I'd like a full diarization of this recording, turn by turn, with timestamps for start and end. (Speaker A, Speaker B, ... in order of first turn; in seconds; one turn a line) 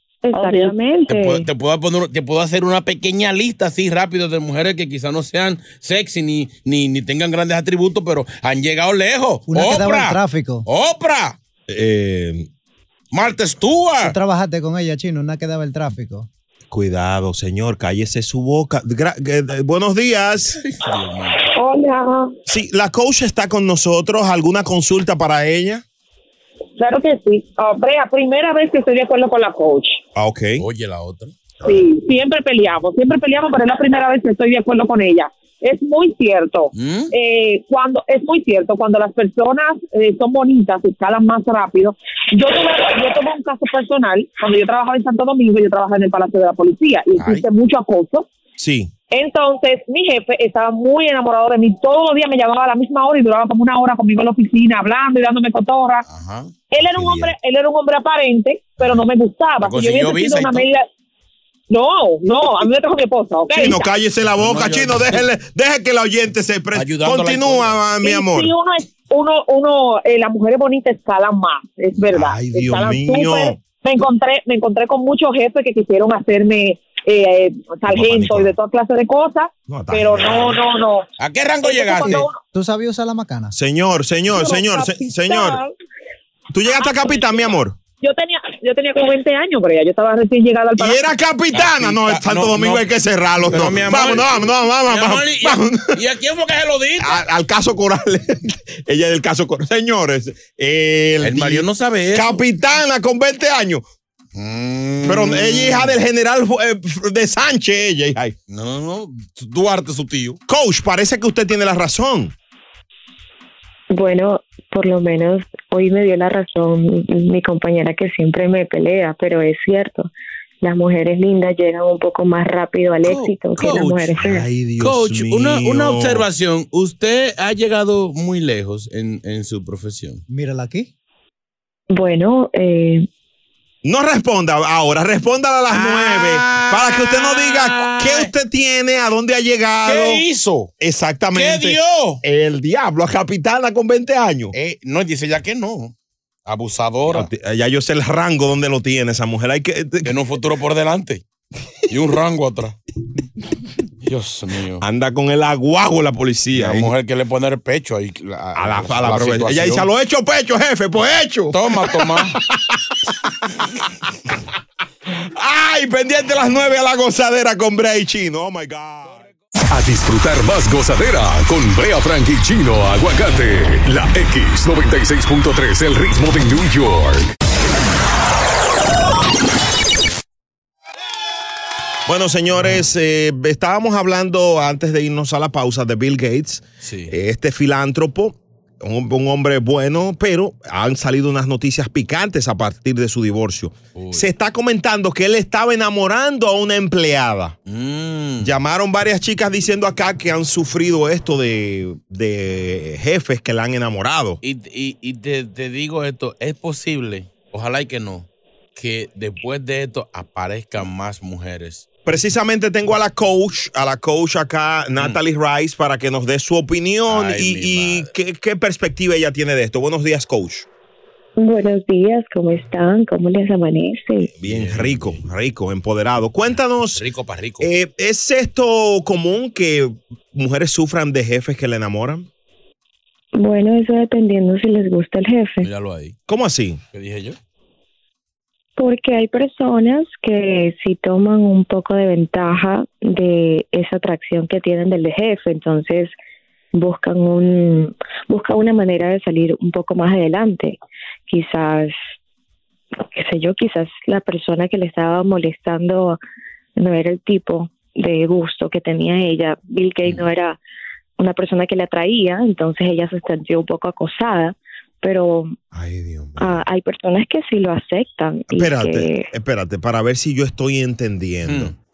Speaker A: 0.2-1.5
Speaker B: 1.1-11.4
Speaker C: 9.5-10.7
Speaker D: 11.7-12.5
Speaker B: 13.1-14.2
Speaker C: 14.0-16.3
Speaker D: 16.7-20.6
Speaker B: 20.5-21.4
Speaker D: 22.5-25.8
Speaker E: 26.9-29.5
Speaker D: 30.1-30.6
Speaker B: 30.6-31.3
Speaker E: 31.8-36.7
Speaker B: 36.7-37.1
Speaker E: 37.2-48.2
Speaker B: 47.2-47.5
Speaker D: 48.6-48.9
Speaker E: 49.1-56.0
Speaker B: 56.0-56.5
Speaker D: 56.9-57.3
Speaker E: 57.3-60.6
Speaker B: 59.6-60.7
Speaker E: 61.7-63.6
Speaker D: 63.5-68.5
Speaker B: 64.4-65.3
Speaker B: 66.7-67.8
Speaker E: 69.2-71.7
Speaker D: 72.0-73.6
Speaker E: 72.8-73.2
Speaker E: 73.8-80.9
Speaker D: 77.9-78.5
Speaker D: 79.7-80.6
Speaker B: 81.2-82.3
Speaker C: 82.5-83.5
Speaker D: 83.5-85.6
Speaker D: 86.5-87.8
Speaker E: 88.0-90.9
Speaker D: 90.8-96.0
Speaker B: 91.5-92.9
Speaker B: 93.4-97.2
Speaker D: 97.0-103.8
Speaker B: 101.2-102.4
Speaker B: 104.3-106.0
Speaker D: 105.0-108.3
Speaker B: 108.5-110.4
Speaker D: 110.5-112.3
Speaker A: 113.9-120.1
Speaker A: 120.6-124.5
Speaker B: 123.0-124.1
Speaker D: 124.2-126.2
Speaker B: 124.8-130.2
Speaker C: 130.3-130.9
Speaker A: 131.9-133.1
Speaker D: 133.8-140.2
Speaker B: 135.7-138.3
Speaker B: 139.8-140.7
Speaker D: 140.8-144.5
Speaker B: 141.3-142.2
Speaker B: 144.5-145.9
Speaker B: 146.5-147.3
Speaker D: 147.1-150.1
Speaker B: 150.1-151.2
Speaker B: 151.9-152.8
Speaker B: 154.0-154.8
Speaker D: 154.8-156.9
Speaker B: 156.6-159.9
Speaker D: 158.6-162.8
Speaker B: 161.5-162.4
Speaker D: 165.3-169.2
Speaker F: 169.7-177.3
Speaker D: 182.1-197.6
Speaker B: 186.8-187.2
Speaker B: 194.0-194.3
Speaker B: 197.7-198.5
Speaker D: 198.4-204.4
Speaker B: 204.4-211.9
Speaker D: 212.1-220.7
Speaker B: 217.1-218.1
Speaker A: 221.4-224.3
Speaker D: 224.4-227.0
Speaker B: 224.4-225.2
Speaker B: 226.9-227.7
Speaker D: 227.6-232.3
Speaker A: 233.4-235.7
Speaker B: 235.6-236.2
Speaker D: 236.3-236.8
Speaker B: 236.9-237.4
Speaker A: 238.8-246.1
Speaker A: 246.7-250.8
Speaker A: 251.3-252.0
Speaker A: 253.1-256.2
Speaker A: 256.8-260.6
Speaker A: 261.2-265.6
Speaker D: 265.7-266.6
Speaker A: 266.4-269.3
Speaker D: 268.5-271.7
Speaker B: 271.4-271.7